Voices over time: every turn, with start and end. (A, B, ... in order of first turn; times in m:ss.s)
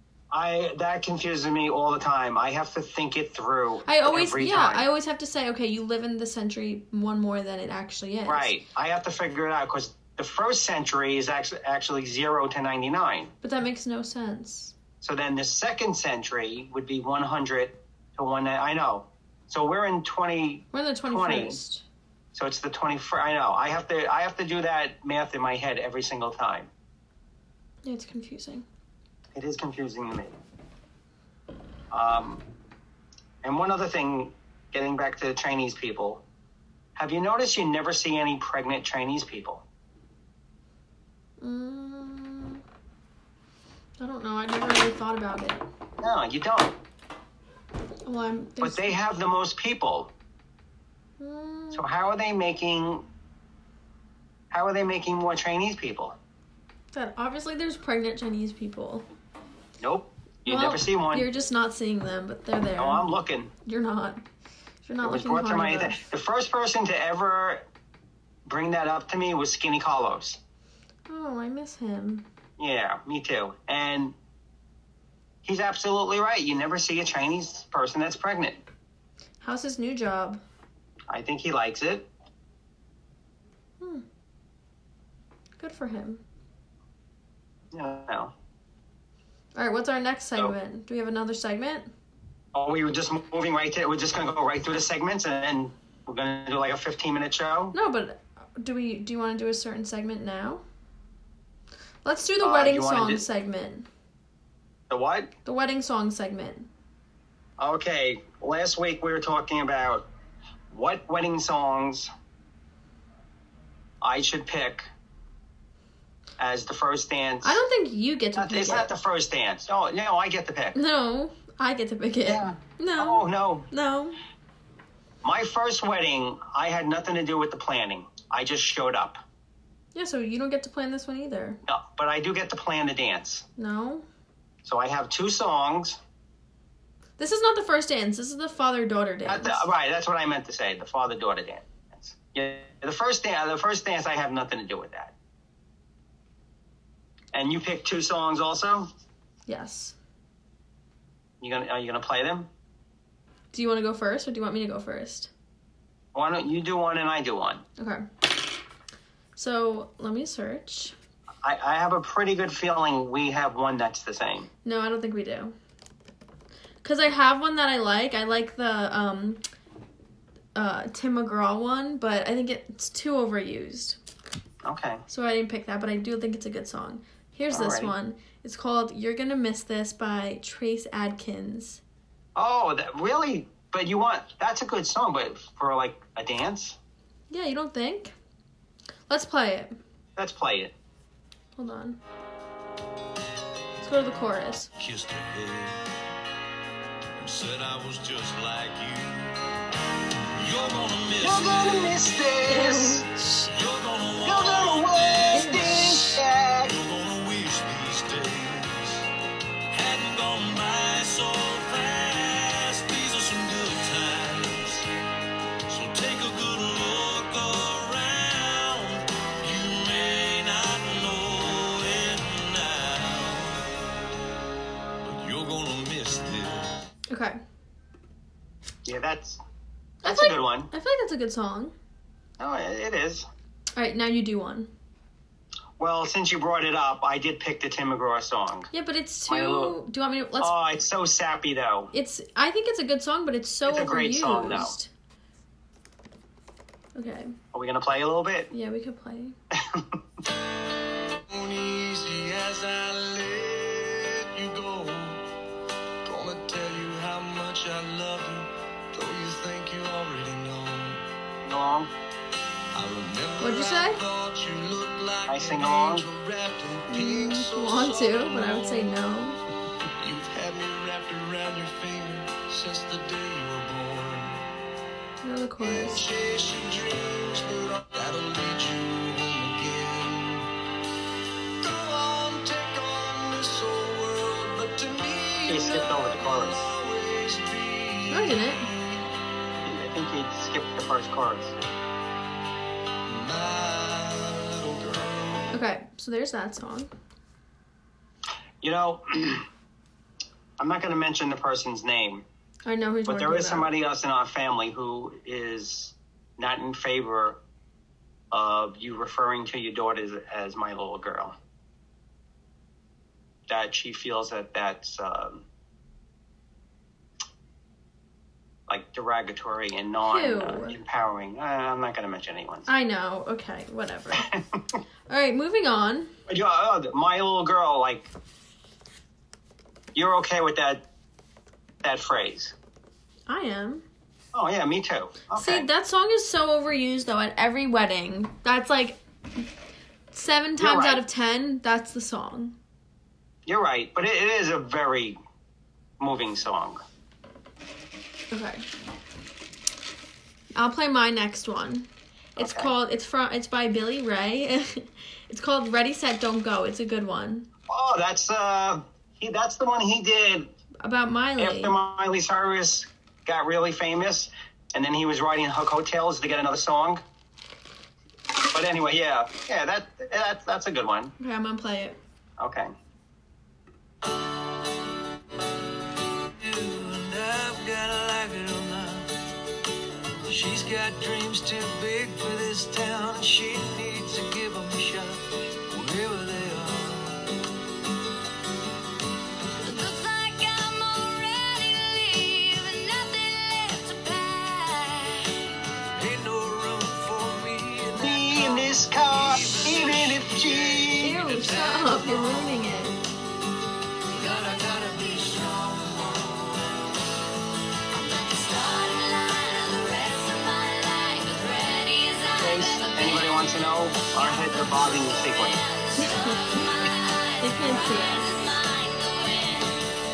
0:00.3-0:04.8 A
0:03.9-0:08.5 B
0:08.3-0:13.3 A
0:13.4-0:14.7 B
0:15.0-0:21.6 A
0:20.7-0:21.8 B
0:22.3-0:26.7 A
0:27.8-0:28.6 B
0:29.3-0:30.4 A
0:31.9-0:32.4 A
0:33.4-0:36.2 A
0:37.0-0:39.6 A
0:41.4-0:42.6 B
0:44.0-0:45.6 B
0:46.0-0:46.8 A
0:48.1-0:49.0 B
0:48.6-0:50.1 A
0:51.2-0:51.8 B
0:51.7-0:53.1 A
0:54.5-0:56.2 A
0:56.9-0:59.1 B
0:59.8-1:01.3 A
1:00.5-1:03.1 B
1:02.8-1:03.5 A
1:03.6-1:04.2 B
1:04.8-1:06.0 B
1:05.0-1:07.6 A
1:08.5-1:10.4 A
1:11.1-1:12.3 B
1:12.6-1:14.2 A
1:15.4-1:18.6 A
1:19.4-1:20.4 B
1:21.1-1:22.1 A
1:23.8-1:24.0 B
1:25.6-1:26.2 B
1:27.7-1:28.3 A
1:29.6-1:31.9 B
1:32.6-1:37.8 A
1:37.7-1:40.6 B
1:42.0-1:43.9 B
1:42.4-1:43.3 A
1:44.9-1:45.3 A
1:45.4-1:46.7 B
1:47.6-1:50.1 A
1:50.7-1:52.1 A
1:54.0-1:54.9 A
1:56.4-1:57.6 A
1:57.4-1:58.9 B
1:58.4-2:00.8 A
2:00.8-2:04.2 B
2:02.2-2:03.7 A
2:05.2-2:09.2 A
2:09.9-2:11.6 B
2:11.7-2:13.4 A
2:13.6-2:14.0 B
2:14.6-2:16.0 A
2:17.2-2:19.7 B
2:19.3-2:25.1 A
2:27.3-2:28.9 A
2:29.5-2:30.0 B
2:31.4-2:32.5 A
2:33.5-2:35.3 B
2:36.1-2:37.6 A
2:37.8-2:38.0 B
2:39.4-2:41.0 B
2:41.4-2:44.5 A
2:44.6-2:45.5 B
2:46.8-2:49.4 B
2:50.6-2:54.0 B
2:54.6-2:55.0 A
2:55.1-3:01.8 B
2:57.5-2:57.9 A
3:02.4-3:06.8 A
3:07.3-3:08.1 B
3:09.1-3:09.8 B
3:10.2-3:10.7 A
3:11.6-3:12.0 B
3:13.8-3:14.7 B
3:14.8-3:15.8 C
3:17.2-3:19.4 C
3:20.4-3:22.0 C
3:21.2-3:23.1 A
3:22.4-3:23.5 B
3:23.5-3:29.1 C
3:24.2-3:26.8 A
3:25.3-3:26.1 B
3:29.7-3:34.9 C
3:35.7-3:43.6 C
3:45.0-3:46.8 C
3:47.1-3:47.4 B
3:48.8-3:49.4 A
3:50.0-3:50.7 A
3:50.0-3:51.7 B
3:52.4-3:53.3 A
3:53.8-3:54.7 B
3:55.8-3:58.7 A
3:58.7-4:00.5 B
3:59.3-3:59.8 A
4:00.4-4:01.9 A
4:01.9-4:04.9 B
4:03.6-4:04.8 A
4:07.0-4:07.3 B
4:07.5-4:08.5 A
4:08.5-4:09.4 B
4:09.6-4:10.0 A
4:11.3-4:15.2 C
4:16.0-4:21.0 C
4:21.4-4:21.9 A
4:22.7-4:28.9 C
4:23.4-4:24.0 B
4:25.3-4:26.1 A
4:26.9-4:29.4 B
4:30.0-4:34.4 C
4:35.2-4:36.1 B
4:35.6-4:40.5 C
4:41.6-4:48.6 C
4:45.5-4:46.6 A
4:48.1-4:48.7 B
4:49.6-4:51.7 A
4:53.1-4:55.5 C
4:55.5-4:56.9 B
4:58.6-4:59.5 A
5:00.6-5:02.2 A
5:02.6-5:03.7 B
5:03.1-5:07.4 A
5:08.3-5:11.4 A
5:13.5-5:15.4 A
5:18.7-5:22.7 A
5:20.1-5:20.8 B
5:22.7-5:24.3 B
5:24.1-5:24.8 A
5:25.1-5:26.1 B
5:26.3-5:28.1 A
5:30.0-5:30.8 A
5:31.8-5:32.6 A
5:33.3-5:33.8 B
5:34.3-5:35.7 A
5:35.4-5:39.0 B
5:40.1-5:42.6 B
5:40.6-5:41.0 A
5:43.5-5:45.2 A
5:46.0-5:46.8 A
5:48.3-5:48.7 B
5:50.6-5:57.5 B
5:52.4-5:52.7 A
5:57.7-6:00.5 A
6:00.8-6:01.8 B
6:01.4-6:07.0 A
6:08.5-6:11.1 A
6:11.2-6:12.0 B
6:12.4-6:12.7 A
6:16.4-6:19.1 C
6:20.3-6:27.2 C
6:29.6-6:35.3 D
6:36.0-6:42.5 C
6:38.0-6:41.2 A
6:41.0-6:43.0 B
6:44.2-6:46.7 C
6:44.3-6:45.6 D
6:47.9-6:59.8 D
6:52.4-6:55.6 A
6:56.0-6:56.6 B
6:57.4-6:58.3 B